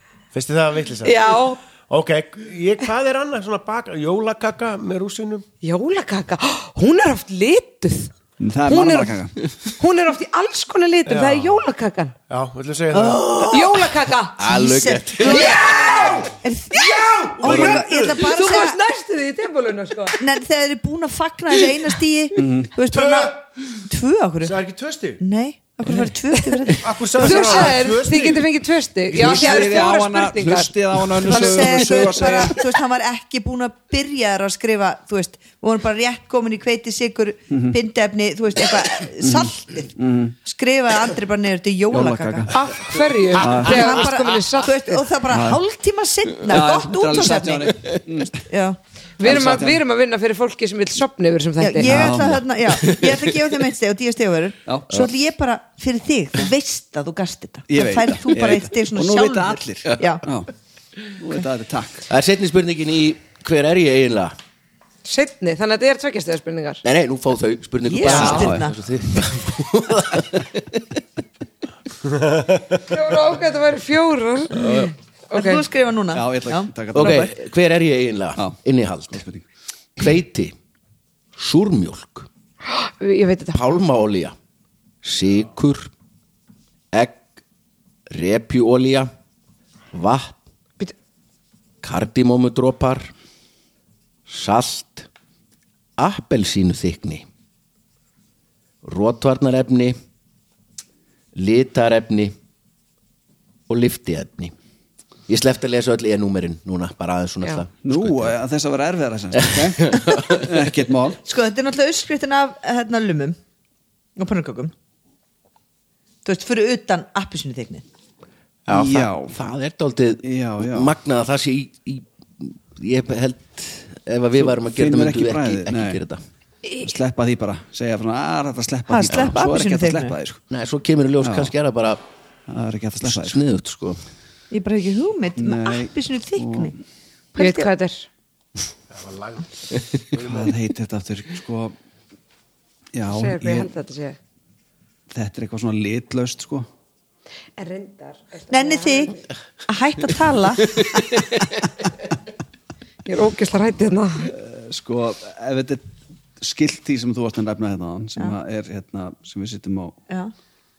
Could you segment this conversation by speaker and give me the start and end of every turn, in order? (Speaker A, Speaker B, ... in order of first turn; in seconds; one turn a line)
Speaker A: 0.3-5.5
Speaker B: 1.0-1.6
Speaker B: 5.6-8.1
Speaker C: 8.4-9.4
Speaker B: 8.7-12.2
Speaker A: 11.1-11.6
Speaker A: 12.3-13.4
Speaker D: 12.9-13.8
Speaker B: 13.4-14.4
Speaker D: 14.4-15.7
Speaker E: 14.4-18.8
Speaker B: 15.2-16.2
Speaker A: 15.6-16.3
Speaker A: 16.8-18.2
Speaker B: 17.5-20.2
Speaker E: 20.2-24.6
Speaker C: 22.4-22.7
Speaker A: 22.9-23.4
Speaker A: 24.4-25.2
Speaker E: 25.2-27.8
Speaker B: 26.3-32.5
Speaker A: 26.8-28.5
Speaker A: 29.1-29.7
Speaker C: 29.1-32.7
Speaker E: 31.2-42.5
Speaker C: 37.5-37.8
Speaker C: 39.2-40.3
Speaker C: 41.9-42.6
Speaker B: 42.5-45.0
Speaker C: 43.3-44.0
Speaker E: 43.4-48.8
Speaker C: 45.3-45.6
Speaker C: 46.4-48.5
Speaker B: 49.2-52.1
Speaker C: 49.2-49.8
Speaker E: 51.6-60.2
Speaker C: 51.8-52.4
Speaker D: 52.7-53.4
Speaker C: 54.6-55.0
Speaker C: 57.7-60.5
Speaker C: 61.2-62.0
Speaker D: 62.1-64.3
Speaker B: 65.0-66.8
Speaker D: 66.8-71.0
Speaker E: 67.8-68.7
Speaker B: 68.0-68.5
Speaker C: 68.1-68.7
Speaker A: 72.0-72.7
Speaker B: 72.8-75.6
Speaker D: 74.5-74.9
Speaker E: 75.3-77.3
Speaker C: 76.1-77.3
Speaker D: 76.9-79.2
Speaker C: 79.1-79.4
Speaker D: 80.0-80.5
Speaker D: 81.3-82.3
Speaker B: 82.6-83.7
Speaker D: 83.5-84.3
Speaker D: 85.0-85.9
Speaker D: 86.9-87.2
Speaker D: 88.1-89.1
Speaker D: 89.9-90.4
Speaker D: 91.8-93.1
Speaker D: 94.3-95.1
Speaker D: 96.0-97.2
Speaker D: 98.8-100.0
Speaker D: 101.3-102.3
Speaker D: 103.7-104.5
Speaker D: 105.3-108.3
Speaker C: 107.8-111.2
Speaker D: 109.4-110.5
Speaker E: 111.2-113.4
Speaker E: 114.2-114.7
Speaker E: 116.2-117.8
Speaker D: 118.7-126.2
Speaker C: 118.7-119.4
Speaker C: 120.2-120.9
Speaker C: 124.4-126.0
Speaker C: 126.8-130.4
Speaker E: 128.9-130.2
Speaker D: 130.5-132.0
Speaker C: 131.2-131.5
Speaker C: 132.5-133.4
Speaker D: 133.0-134.0
Speaker E: 134.5-136.7
Speaker C: 135.4-136.7
Speaker B: 137.3-138.1
Speaker E: 137.3-137.7
Speaker A: 138.9-139.5
Speaker A: 140.1-140.5
Speaker C: 140.1-141.7
Speaker C: 142.9-143.7
Speaker B: 143.1-144.2
Speaker C: 145.1-146.7
Speaker B: 147.6-149.3
Speaker E: 148.5-149.1
Speaker E: 149.7-150.8
Speaker B: 153.1-154.3
Speaker C: 154.2-155.8
Speaker C: 156.4-160.0